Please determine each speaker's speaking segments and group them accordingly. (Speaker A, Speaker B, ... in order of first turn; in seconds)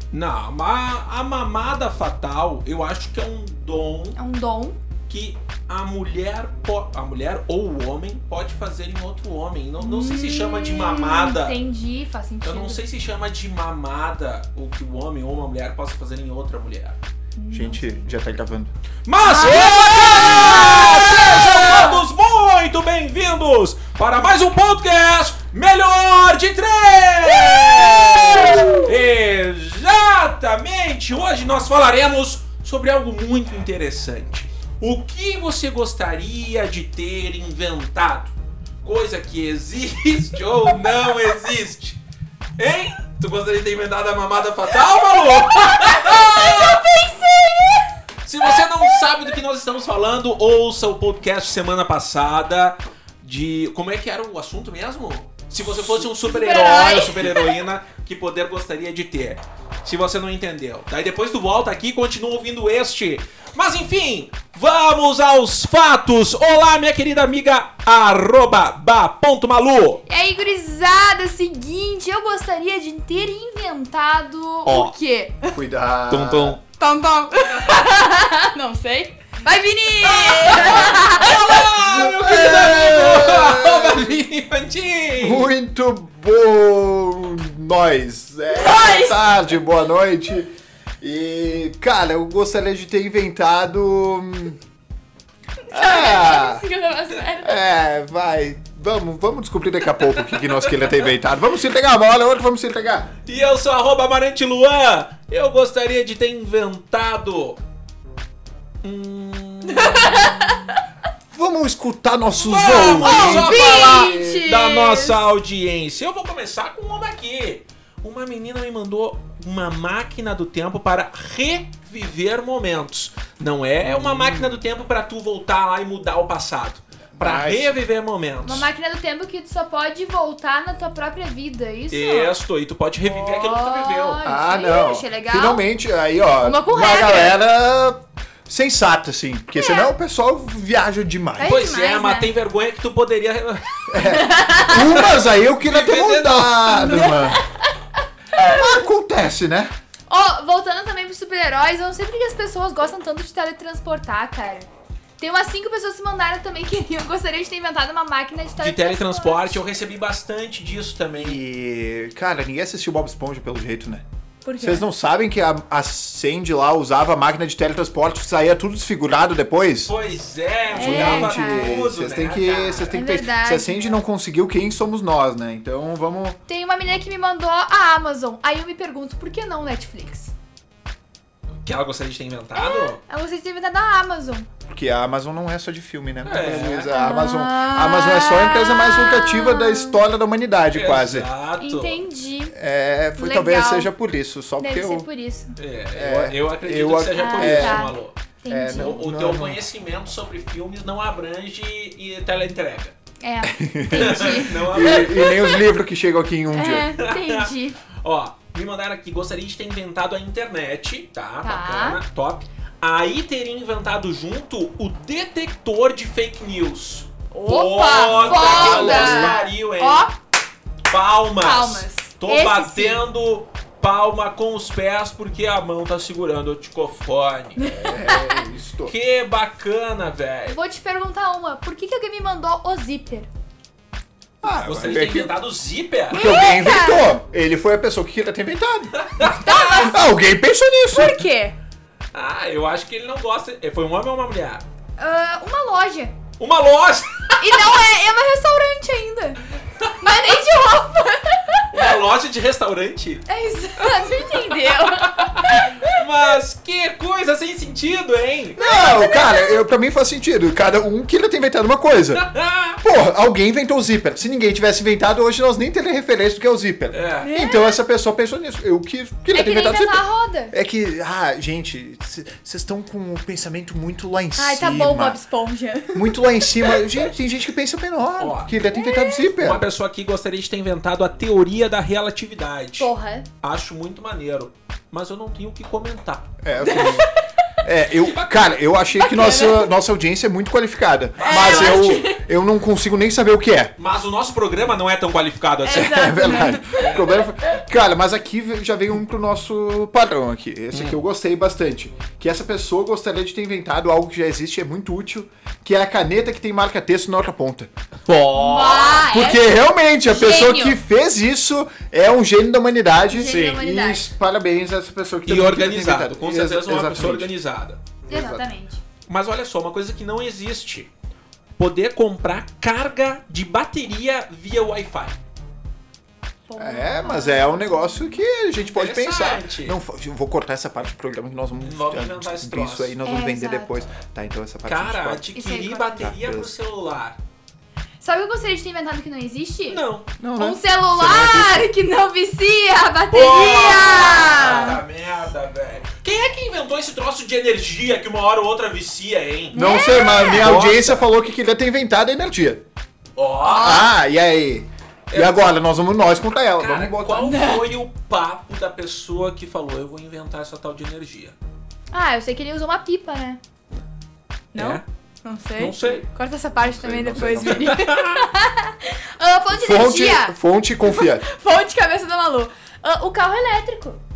Speaker A: 0.1-4.2, 5.1-11.6, 12.4-17.0, 19.0-42.0, 42.6-46.8, 48.2-70.0, 74.7-74.9, 76.1-76.6, 77.3-77.8, 80.0-85.5, 99.9-101.0, 103.2-107.6, 108.8-110.5, 112.3-128.7, 131.9-134.3, 141.4-144.0, 144.9-147.2, 158.6-161.4, 169.8-173.0, 181.6-183.0, 186.2-186.9, 190.7-192.0, 195.6-198.2, 198.7-202.9, 203.9-205.3, 207.0-220.1, 220.9-227.7, 228.8-230.6, 234.4-236.3, 238.9-239.9, 242.1-244.6, 246.4-247.6, 251.7-253.3, 253.8-258.7, 262.1-262.8, 266.9-267.3, 278.2-278.6, 279.3-286.9, 287.9-288.6, 291.2-292.0, 293.8-296.1, 296.7-297.2, 300.7-301.0, 308.1-309.1, 315.2-318.0, 319.1-320.9, 321.6-325.2, 328.7-329.8, 331.6-332.9, 334.6-337.2, 339.7-340.2, 343.1-349.7, 350.3-351.1, 353.1-353.9, 355.1-355.6, 356.5-361.3, 364.5-364.8, 365.6-366.1, 367.4-368.2
Speaker B: 4.2-4.8, 9.8-12.8, 17.4-18.0, 19.2-22.0, 28.4-29.0, 45.2-47.9, 56.1-57.6, 70.0-75.6, 76.7-81.8, 88.5-89.2, 95.6-97.6, 109.7-110.8, 112.9-115.3, 128.4-132.4, 133.1-135.6, 136.4-137.4, 139.5-139.9, 141.4-142.3, 144.0-144.9, 146.8-147.7, 148.3-148.8, 150.1-159.6, 164.4-164.9, 170.7-171.8, 172.8-174.0, 176.5-180.3, 182.5-184.5, 186.8-190.0, 191.6-192.5, 193.2-193.9, 194.6-195.6, 197.1-198.9, 203.2-205.7, 206.5-207.8, 211.4-212.0, 217.3-220.1, 221.4-223.1, 227.6-228.5, 230.5-233.3, 236.1-237.2, 239.2-240.0, 240.9-241.6, 245.0-246.2, 247.4-249.4, 250.0-252.0, 253.2-256.1, 258.6-259.6, 267.2-267.8, 269.3-270.5, 274.3-277.0, 278.6-279.3, 282.8-283.3, 286.6-287.7, 288.9-289.7, 291.2-292.2, 295.6-297.6, 308.3-309.5, 310.1-310.8, 313.1-314.1, 318.1-318.8, 326.5-328.2, 333.0-333.7, 335.3-336.1, 338.0-344.8, 349.5-350.5, 353.4-353.9, 357.2-357.6, 361.9-363.4, 364.5-374.0
Speaker C: 17.5-18.7, 75.5-76.6, 81.8-84.2, 85.2-94.6, 95.7-96.6, 97.3-103.1, 111.3-114.4, 123.8-124.6, 127.1-127.7, 134.2-141.6, 143.9-147.4, 148.3-149.7, 161.1-164.0, 164.6-169.9, 170.7-176.4, 184.7-191.3, 192.5-195.1, 195.9-197.9, 198.5-199.6, 203.4-207.0, 218.1-219.4, 227.6-228.9, 234.4-235.3, 236.1-241.2, 258.6-262.3, 262.8-275.2, 275.9-279.7, 286.4-293.7, 295.7-307.7, 308.9-317.3, 318.1-318.5, 326.6-335.3, 336.0-336.5, 340.2-341.7, 349.5-352.6, 353.5-357.4, 366.6-367.9, 369.5-371.2